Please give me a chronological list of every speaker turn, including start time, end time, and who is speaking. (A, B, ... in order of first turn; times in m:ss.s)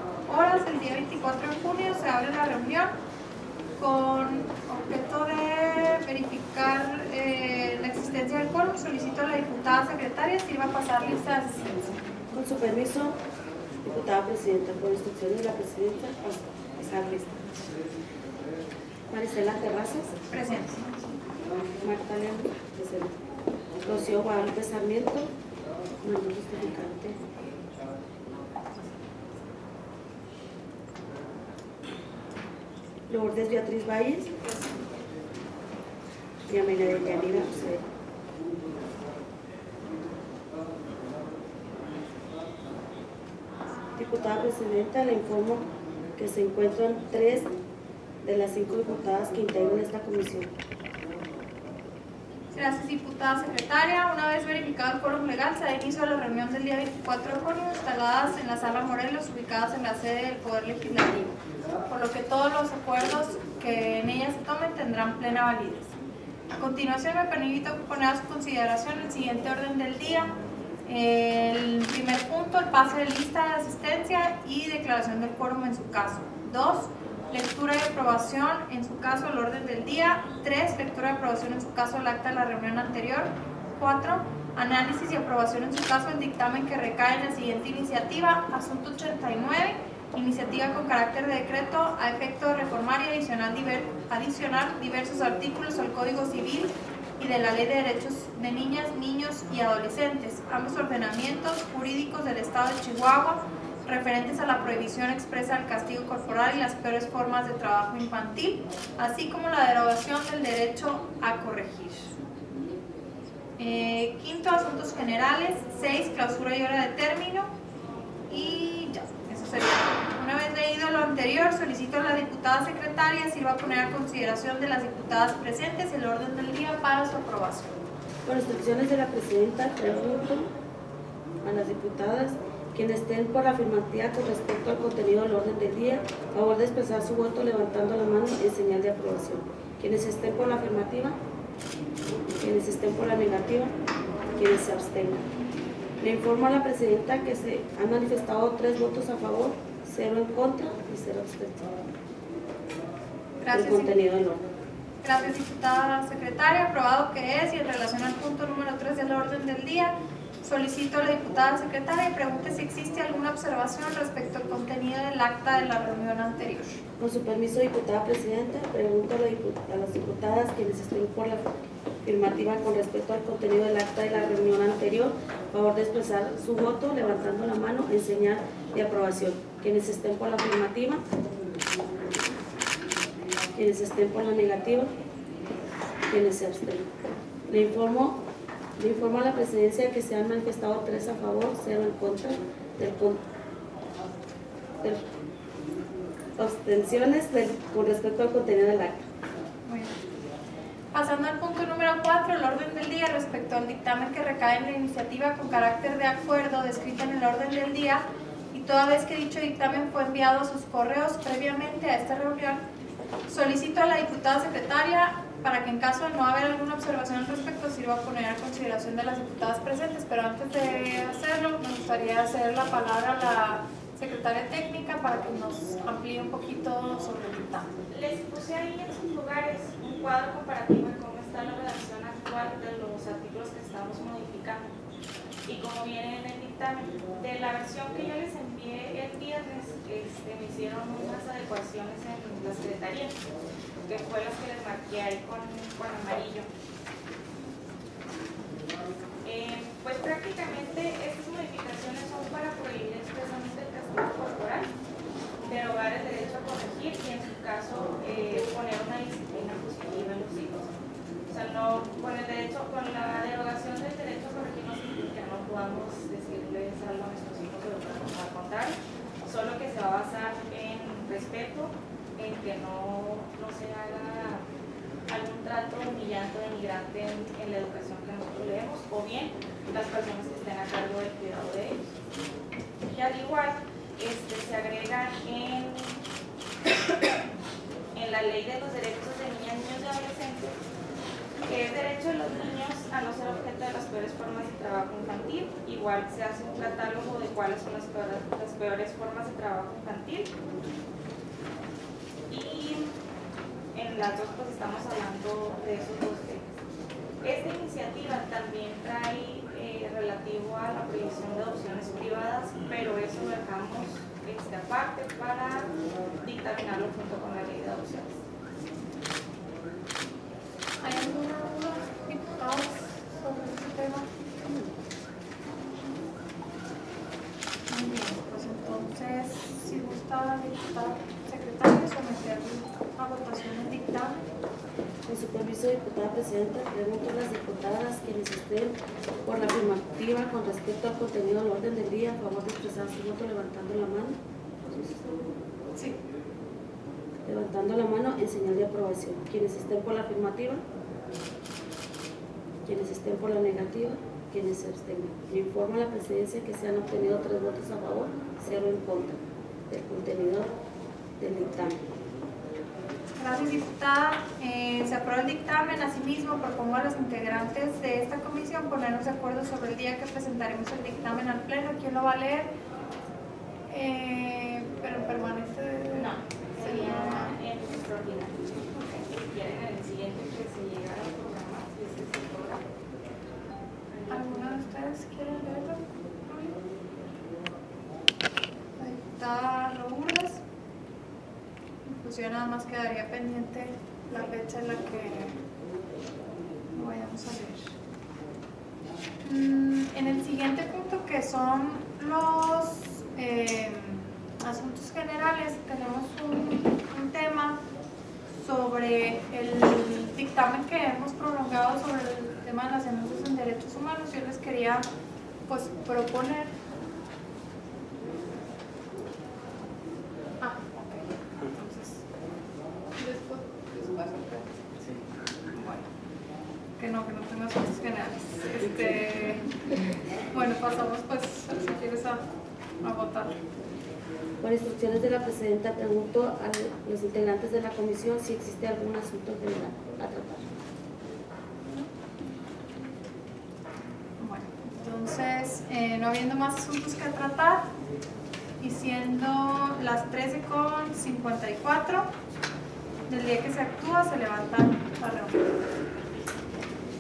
0:00.2-0:02.9 A
0:03.8-0:12.0 A
0:12.3-0:13.2 B
0:13.8-0:17.7 B
0:19.1-0:20.2 B
0:20.3-0:21.0 A
0:21.8-0:23.2 B
0:23.8-0:25.3 B
0:26.0-0:27.2 B
0:33.1-0:34.6 B
0:36.5-0:37.8 B
0:43.9-0:47.5 B
0:48.2-0:50.5 B
0:52.5-1:01.4 A
1:01.9-1:05.9 A
1:06.5-1:10.3 A
1:10.8-1:52.1 A
1:53.6-1:57.5 A
1:58.3-2:07.7 A
2:08.2-2:10.5 B
2:11.4-2:21.2 B
2:22.4-2:23.7 B
2:24.3-2:25.2 B
2:26.0-2:31.7 B
2:33.4-2:34.0 A
2:33.5-2:34.4 B
2:35.0-2:46.8 A
2:47.0-2:51.4 B
2:52.0-3:01.0 B
3:03.5-3:04.9 B
3:06.1-3:06.9 B
3:07.5-3:08.2 B
3:08.8-3:13.2 B
3:16.4-3:19.0 B
3:19.6-3:20.0 A
3:20.9-3:32.6 A
3:33.3-3:47.7 A
3:47.9-3:54.8 C
3:55.4-4:03.2 C
4:03.8-4:06.5 C
4:09.2-4:14.7 C
4:15.5-4:20.7 C
4:21.3-4:34.4 C
4:35.1-4:41.8 C
4:42.8-4:46.0 C
4:46.7-4:47.2 C
4:47.9-4:50.6 C
4:51.4-5:00.3 C
5:02.3-5:02.9 C
5:03.7-5:06.5 C
5:07.2-5:15.7 C
5:16.2-5:18.2 C
5:20.8-5:24.1 A
5:27.7-5:34.2 A
5:35.0-5:45.2 B
5:47.2-5:50.6 B
5:52.6-5:59.2 B
5:59.7-6:00.5 B
6:01.2-6:01.8 B
6:03.2-6:12.5 A
6:13.7-6:17.3 A
6:15.9-6:22.6 C
6:23.9-6:24.7 C
6:24.1-6:26.5 A
6:28.8-6:30.4 A
6:31.9-6:35.4 A
6:36.7-6:37.7 A
6:39.2-6:47.6 A
6:48.4-6:54.8 A
6:55.5-6:56.5 A
7:00.4-7:02.0 A
7:03.0-7:05.8 A
7:06.8-7:12.2 A
7:12.8-7:13.4 A
7:14.4-7:20.4 B
7:24.2-7:27.6 A
7:28.6-7:32.1 A
7:33.1-7:35.4 A